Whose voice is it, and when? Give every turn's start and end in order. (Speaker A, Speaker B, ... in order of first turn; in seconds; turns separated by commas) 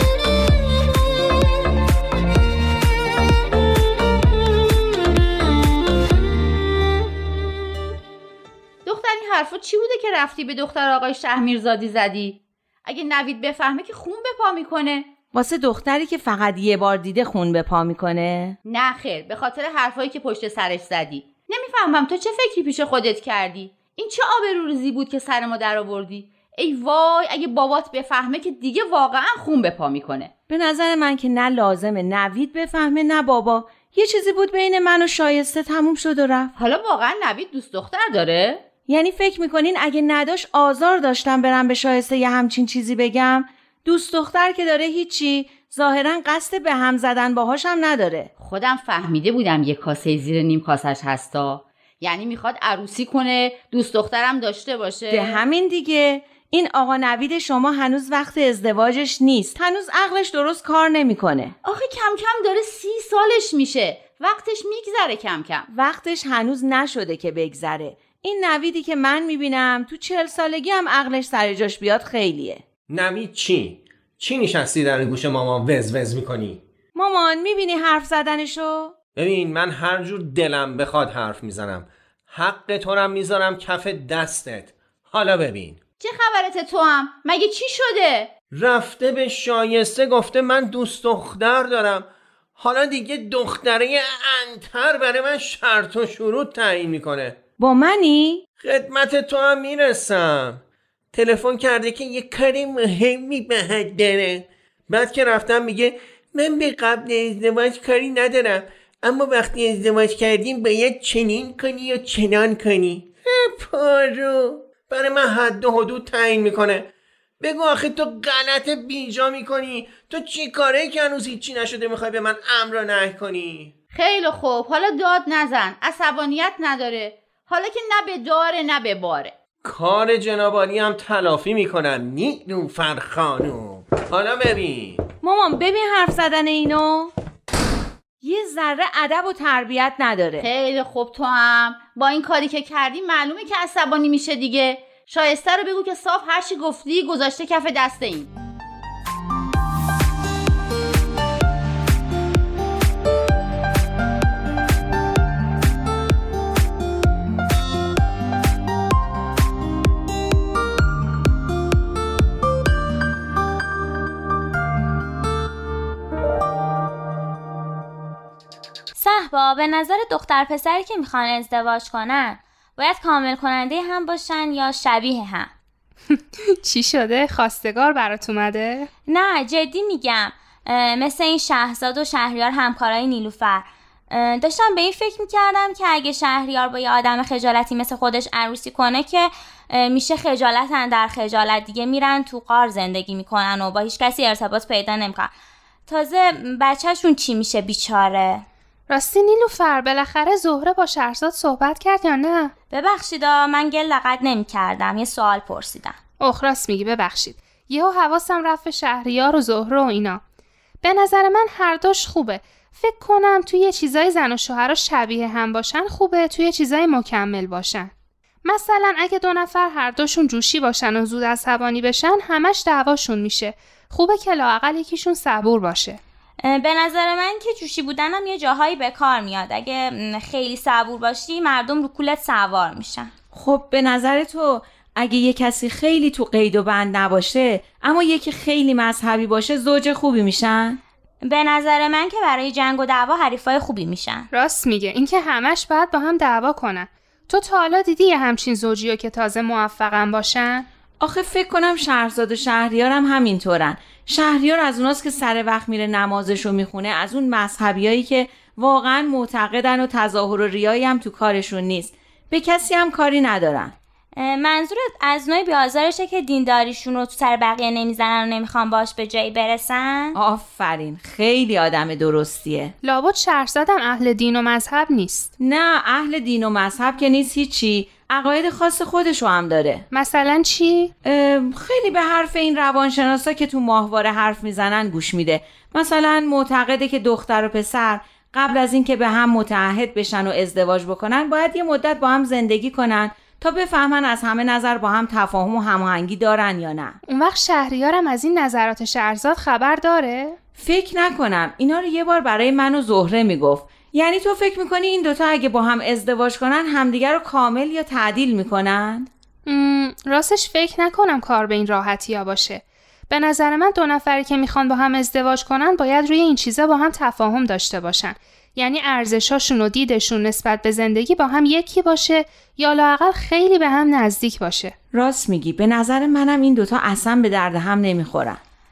Speaker A: 8.8-15.1, Speaker B: 15.3-18.6, Speaker A: 18.6-30.3, Speaker B: 30.5-36.5, Speaker A: 36.5-38.6, Speaker B: 38.9-48.3, Speaker A: 48.4-55.4, Speaker B: 55.1-61.5, Speaker A: 61.6-65.7, Speaker B: 65.7-72.6, Speaker C: 72.9-76.6, Speaker B: 76.9-78.9, Speaker C: 79.2-85.8, Speaker A: 86.0-88.3, Speaker C: 88.5-97.4, Speaker B: 97.6-98.4, Speaker C: 98.6-100.6, Speaker C: 101.1-116.9, Speaker C: 117.4-123.7, Speaker A: 123.9-129.3, Speaker C: 129.6-135.0, Speaker B: 135.2-137.1, Speaker B: 138.2-140.5, Speaker A: 140.4-148.3, Speaker D: 169.0-175.5, Speaker E: 176.1-178.9, Speaker D: 179.1-195.3, Speaker D: 195.9-198.4, Speaker E: 198.9-202.5, Speaker D: 202.7-206.0, Speaker E: 206.2-210.2, Speaker E: 210.8-217.9, Speaker E: 218.4-226.0, Speaker D: 226.4-233.1, Speaker B: 233.3-240.8, Speaker D: 241.2-244.3, Speaker E: 244.3-250.7, Speaker B: 251.0-263.7, Speaker D: 264.2-270.1, Speaker B: 270.1-272.7, Speaker E: 272.8-275.3, Speaker B: 275.4-279.8, Speaker E: 279.9-280.9, Speaker B: 281.0-297.0, Speaker E: 297.1-300.4, Speaker B: 300.6-309.1, Speaker E: 309.4-324.7, Speaker B: 324.9-328.4